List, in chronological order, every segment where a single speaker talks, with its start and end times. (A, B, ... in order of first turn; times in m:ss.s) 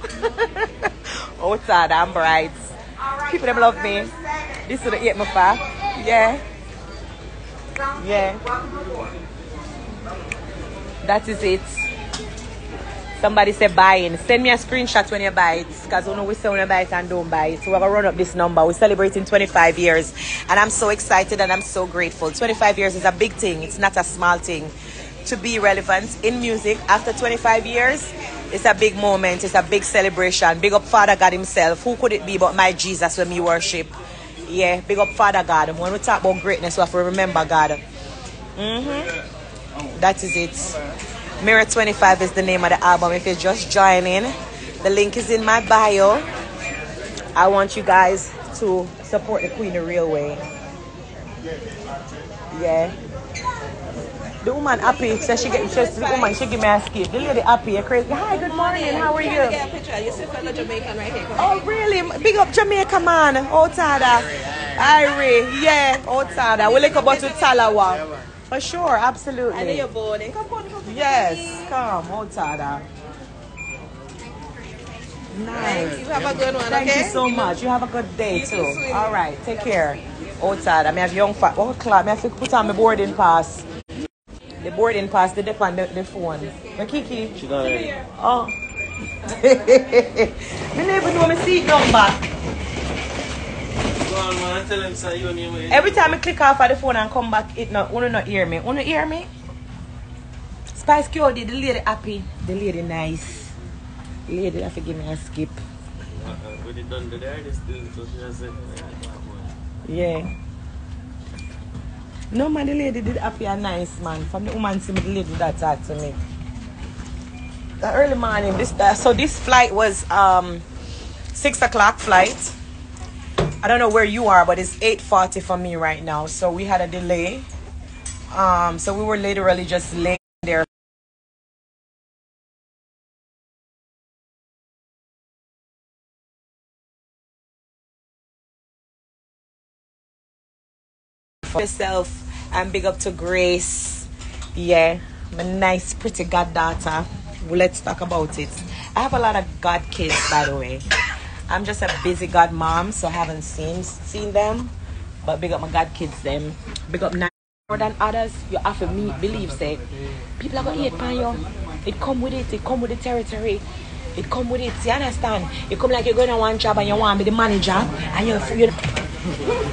0:00.2-0:02.7 A
0:03.2-0:04.1 A
0:04.7-0:06.4 A
0:08.0-0:08.4 A
0:11.0-0:11.9 A
0:13.2-0:24.7 A
0:25.2-0:33.9 A
0:34.4-0:37.8 A
0:38.6-0:39.1 A
0:40.0-0:40.8 A
0:41.4-0:46.2 A
0:47.4-0:50.4 A
0:52.5-0:52.9 A
0:54.4-0:59.6 A
0:58.5-1:01.4 B
1:01.4-1:09.8 A
1:09.5-1:11.6 B
1:10.8-1:12.8 A
1:15.3-1:16.1 A
1:15.5-1:17.2 B
1:16.7-1:23.6 A
1:18.4-1:19.0 C
1:24.6-1:27.4 A
1:27.3-1:28.0 C
1:28.1-1:28.5 A
1:29.2-1:32.2 A
1:33.9-1:36.1 C
1:35.7-1:39.3 A
1:40.7-1:43.5 A
1:44.3-1:45.6 A
1:46.2-1:49.5 C
1:49.8-1:50.3 A
1:52.3-1:56.2 A
1:57.8-2:00.6 A
2:01.3-2:02.6 A
2:03.6-2:07.5 A
2:08.3-2:10.6 A
2:21.4-2:30.8 A
2:31.5-2:34.7 A
2:35.2-2:39.8 A
2:40.4-2:43.6 A
2:44.1-2:48.8 A